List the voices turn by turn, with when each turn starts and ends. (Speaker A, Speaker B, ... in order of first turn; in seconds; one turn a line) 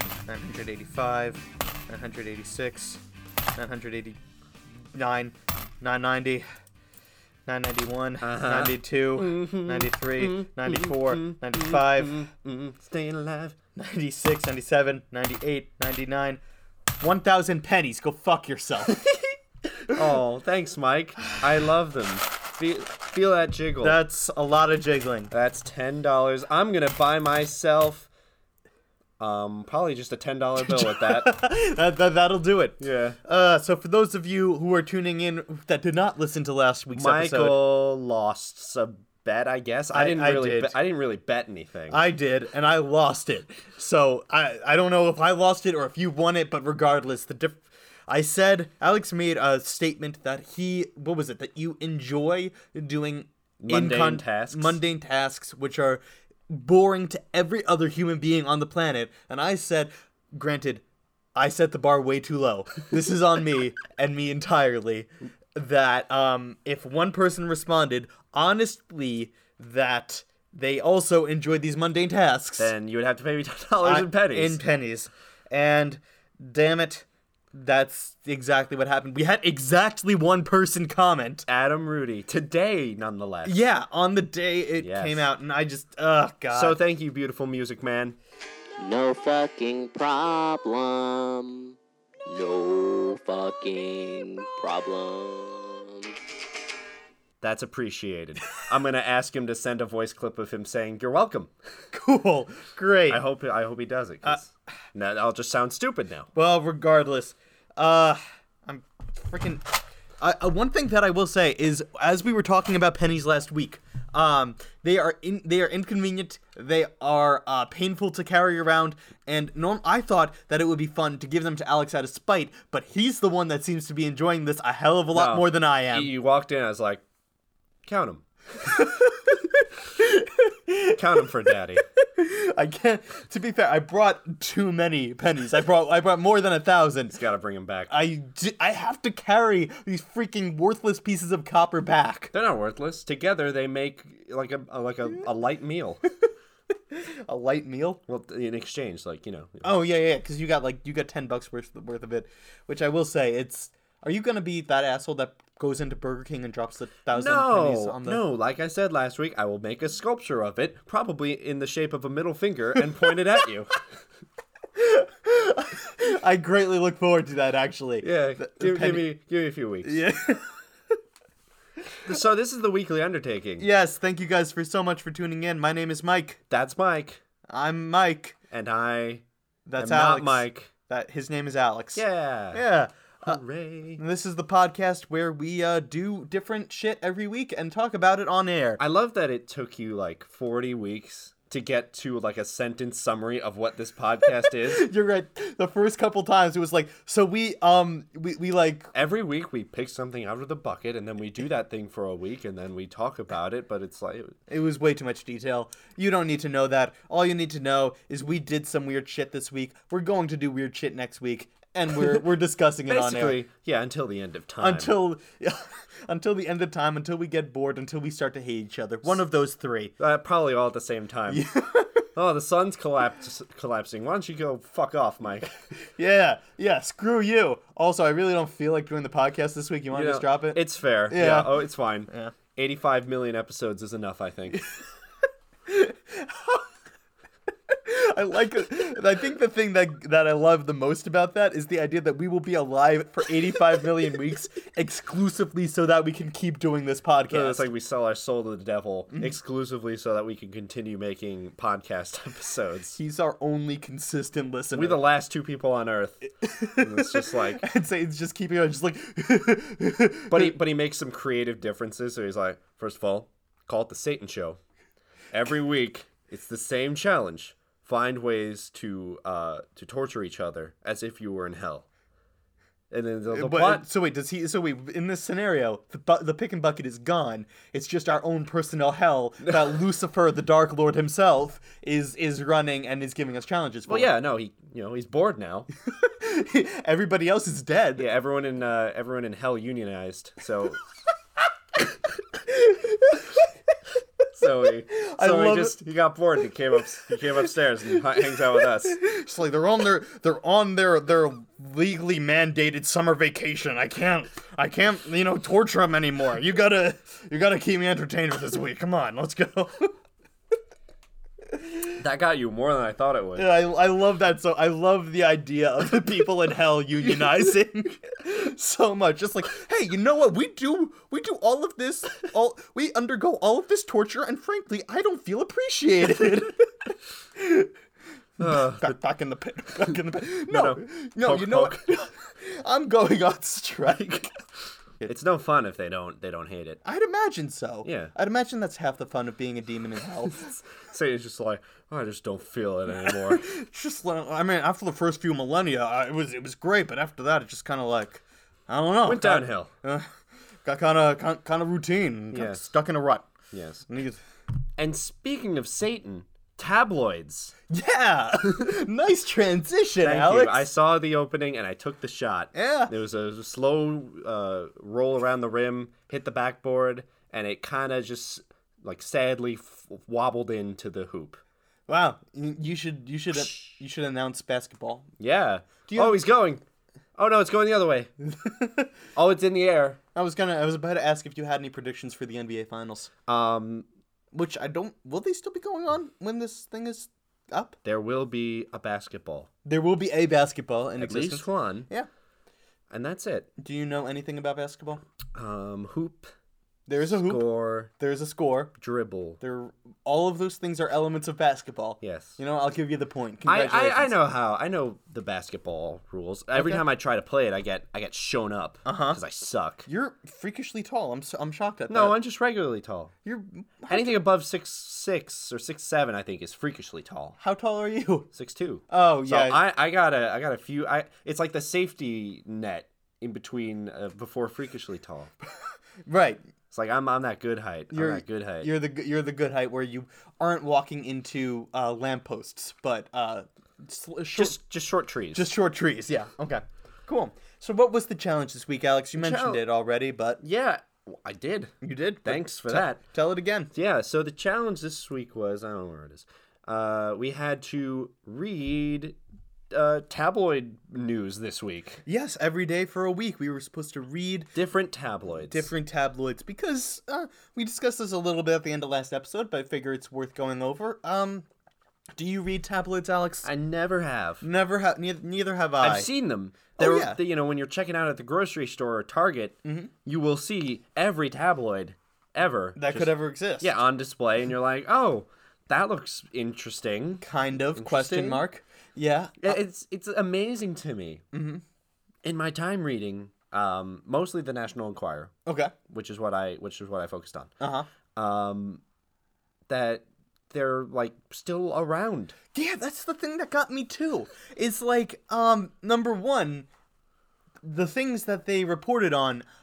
Speaker A: 0.3-3.0
Speaker A: 3.6-4.2
Speaker A: 4.9-6.5
Speaker A: 7.5-12.3
Speaker B: 8.2-13.6
Speaker A: 13.8-16.4
Speaker A: 17.0-19.0
Speaker B: 19.9-24.0
Speaker A: 23.8-25.3
Speaker B: 25.3-28.1
Speaker B: 29.2-31.3
Speaker A: 30.6-37.6
Speaker B: 32.8-33.2
Speaker B: 37.0-42.0
Speaker A: 39.9-40.8
Speaker A: 41.9-60.8
Speaker B: 53.6-54.8
Speaker A: 61.4-72.7
Speaker B: 72.6-74.6
Speaker A: 73.8-81.5
Speaker B: 81.5-83.7
Speaker A: 83.5-86.8
Speaker B: 84.8-85.3
Speaker B: 86.5-88.2
Speaker C: 88.8-91.8
Speaker C: 92.3-96.1
Speaker B: 97.4-101.5
Speaker A: 101.9-103.2
Speaker B: 103.1-106.3
Speaker A: 106.3-109.7
Speaker A: 110.2-126.1
Speaker B: 125.1-127.0
Speaker B: 127.8-128.2
Speaker A: 128.7-129.4
Speaker A: 129.9-131.0
Speaker B: 130.9-131.8
Speaker A: 132.0-137.2
Speaker B: 137.1-137.9
Speaker A: 137.9-142.3
Speaker B: 142.3-146.0
Speaker A: 146.9-148.0
Speaker B: 148.1-149.7
Speaker A: 149.6-158.2
Speaker B: 157.1-163.7
Speaker A: 164.8-169.1
Speaker B: 168.0-170.0
Speaker A: 169.8-170.6
Speaker B: 172.1-173.7
Speaker A: 173.6-176.4
Speaker B: 176.5-177.2
Speaker A: 177.5-178.4
Speaker B: 178.5-179.2
Speaker A: 179.7-183.4
Speaker B: 179.8-180.7
Speaker B: 181.9-182.6
Speaker B: 183.2-184.0
Speaker A: 184.0-188.8
Speaker B: 188.8-194.9
Speaker A: 194.4-198.9
Speaker B: 198.9-204.4
Speaker A: 204.5-213.4
Speaker B: 212.9-215.0
Speaker A: 214.6-219.9
Speaker B: 220.0-221.5
Speaker A: 221.3-222.1
Speaker B: 222.2-225.6
Speaker A: 225.9-232.3
Speaker B: 229.9-234.6
Speaker A: 235.7-236.7
Speaker A: 237.7-247.7
Speaker B: 247.3-253.0
Speaker A: 253.0-255.0
Speaker B: 254.8-257.6
Speaker A: 256.4-260.5
Speaker B: 260.3-264.6
Speaker B: 265.3-271.9
Speaker B: 272.9-273.9
Speaker A: 273.3-284.1
Speaker B: 283.9-285.7
Speaker A: 285.9-288.1
Speaker B: 288.0-290.8
Speaker A: 292.4-293.5
Speaker B: 294.4-299.0
Speaker A: 294.6-295.8
Speaker A: 298.2-309.9
Speaker B: 312.0-313.5
Speaker A: 313.4-327.7
Speaker A: 328.4-334.4
Speaker B: 328.4-329.0
Speaker B: 329.9-331.9
Speaker B: 335.1-336.8
Speaker A: 336.9-340.5
Speaker B: 337.9-338.1
Speaker B: 340.2-343.4
Speaker A: 343.0-350.1
Speaker B: 349.1-349.7
Speaker A: 350.6-353.3
Speaker B: 352.3-352.6
Speaker B: 353.5-353.9
Speaker A: 353.9-354.2
Speaker B: 354.8-357.5
Speaker A: 357.7-360.7
Speaker B: 360.0-371.4
Speaker A: 362.5-362.9
Speaker A: 371.9-375.1
Speaker B: 375.2-376.6
Speaker A: 375.9-376.2
Speaker B: 377.2-378.1
Speaker A: 378.2-378.9
Speaker B: 379.1-380.0
Speaker A: 380.1-383.1
Speaker B: 383.3-383.9
Speaker A: 384.3-387.8
Speaker B: 387.8-389.5
Speaker A: 389.6-392.1
Speaker B: 391.0-391.9
Speaker B: 392.9-393.5
Speaker A: 393.6-395.0
Speaker B: 395.3-396.3
Speaker A: 396.9-398.7
Speaker B: 397.0-397.9
Speaker B: 398.8-399.4
Speaker A: 399.4-404.2
Speaker B: 402.0-402.4
Speaker B: 403.4-409.9
Speaker A: 406.6-406.8
Speaker A: 408.9-409.2
Speaker A: 409.9-412.2
Speaker B: 411.9-413.1
Speaker A: 413.2-414.3
Speaker B: 413.9-417.4
Speaker A: 417.4-418.3
Speaker B: 418.3-425.3
Speaker A: 418.9-419.6
Speaker A: 426.1-426.4
Speaker B: 426.7-428.7
Speaker A: 427.9-434.6
Speaker B: 434.4-435.5
Speaker A: 435.3-440.4
Speaker B: 439.2-439.6
Speaker B: 440.4-441.7
Speaker A: 441.8-443.7
Speaker B: 442.3-443.0
Speaker B: 443.7-449.2
Speaker B: 449.7-452.0
Speaker A: 452.1-454.6
Speaker B: 454.6-455.7
Speaker A: 455.5-461.5
Speaker A: 462.2-463.5
Speaker B: 463.4-464.4
Speaker A: 464.4-466.1
Speaker B: 465.8-477.2
Speaker A: 466.8-467.2
Speaker A: 469.6-469.9
Speaker A: 472.8-473.8
Speaker A: 477.2-479.6
Speaker B: 477.8-478.4
Speaker B: 479.4-481.2
Speaker A: 481.3-481.6
Speaker B: 482.2-485.3
Speaker A: 485.5-485.7
Speaker B: 485.9-487.5
Speaker A: 487.6-487.9
Speaker B: 488.1-488.8
Speaker B: 489.7-492.4
Speaker A: 492.5-496.7
Speaker A: 497.6-499.4